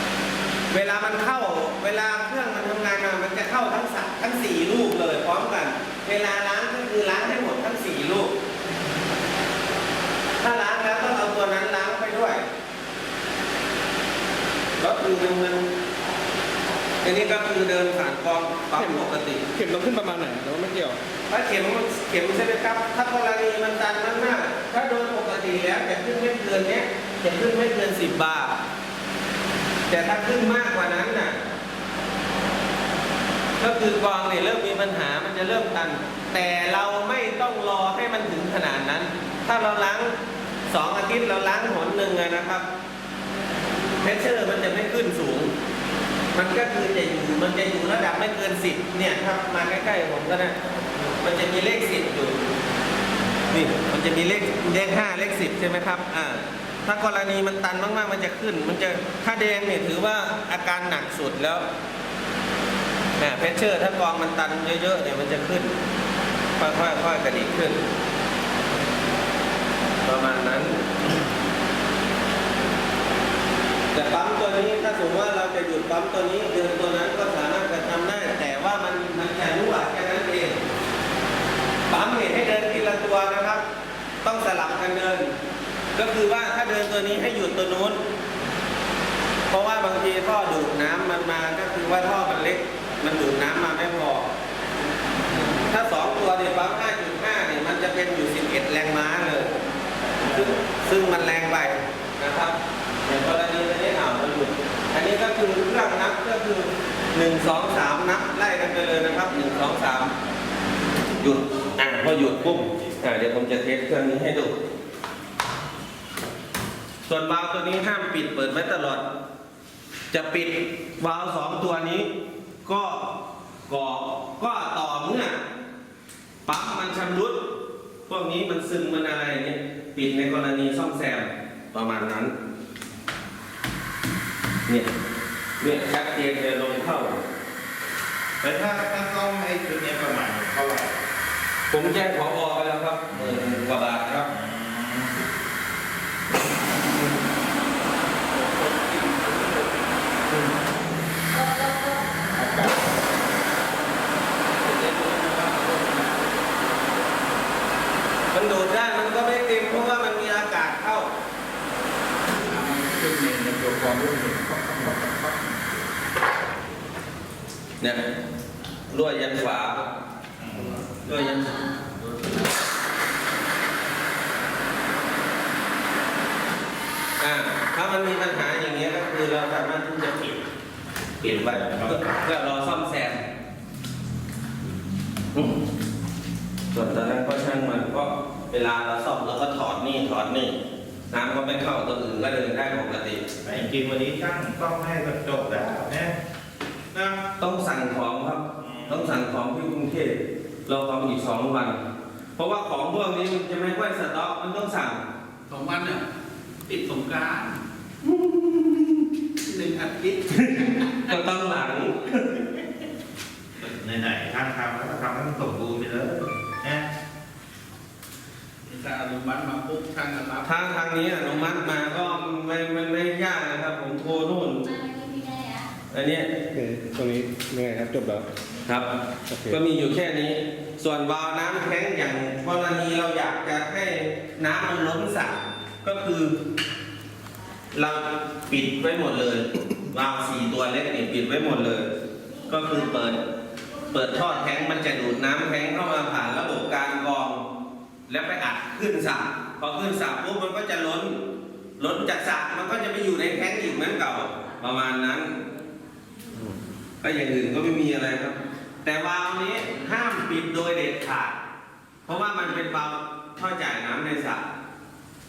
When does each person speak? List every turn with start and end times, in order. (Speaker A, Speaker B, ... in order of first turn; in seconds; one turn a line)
Speaker A: 0.7-8.3
Speaker A: 10.4-12.4
Speaker A: 14.8-15.7
Speaker A: 17.0-19.4
Speaker B: 18.8-21.0
Speaker A: 21.3-28.6
Speaker A: 29.9-31.4
Speaker A: 33.6-40.1
Speaker A: 40.7-42.6
Speaker A: 44.0-45.5
Speaker A: 46.3-50.6
Speaker A: 51.2-52.4
Speaker A: 53.5-61.6
Speaker A: 63.2-65.8
Speaker A: 66.6-67.8
Speaker A: 70.0-70.8
Speaker A: 73.9-80.6
Speaker A: 81.9-83.6
Speaker A: 84.2-85.3
Speaker A: 86.0-88.0
Speaker A: 89.5-94.3
Speaker A: 95.6-99.5
Speaker C: 100.2-100.5
Speaker A: 100.2-110.1
Speaker A: 111.2-114.6
Speaker A: 117.1-119.0
Speaker A: 120.1-122.1
Speaker A: 122.6-123.1
Speaker A: 123.7-125.4
Speaker A: 126.5-127.4
Speaker A: 128.1-132.3
Speaker A: 135.6-137.2
Speaker C: 138.4-140.9
Speaker A: 141.7-144.3
Speaker C: 143.1-143.6
Speaker C: 144.3-145.1
Speaker D: 148.3-150.0
Speaker E: 151.3-152.2
Speaker D: 154.6-156.6
Speaker A: 158.3-161.1
Speaker D: 162.5-165.2
Speaker A: 168.9-169.8
Speaker C: 170.4-170.9
Speaker A: 171.1-171.5
Speaker E: 171.1-171.8
Speaker A: 177.2-180.4
Speaker A: 181.2-183.2
Speaker C: 181.2-182.2
Speaker A: 185.3-185.6
Speaker A: 186.7-190.6
Speaker A: 191.1-193.2
Speaker C: 193.4-196.1
Speaker A: 197.2-201.8
Speaker C: 198.6-199.2
Speaker A: 202.4-205.0
Speaker D: 205.5-206.0
Speaker D: 206.7-207.6
Speaker A: 208.0-209.1
Speaker D: 209.4-211.1
Speaker A: 210.3-212.4
Speaker C: 213.6-216.9
Speaker D: 218.7-220.9
Speaker A: 220.4-224.6
Speaker E: 224.2-225.7
Speaker A: 225.9-226.3
Speaker B: 226.5-228.3
Speaker A: 228.7-228.9
Speaker B: 229.3-229.6
Speaker A: 229.5-236.4
Speaker A: 237.7-241.9
Speaker A: 242.5-243.2
Speaker A: 243.9-247.4
Speaker A: 248.1-251.2
Speaker A: 251.8-255.3
Speaker A: 257.0-261.4
Speaker A: 262.1-264.4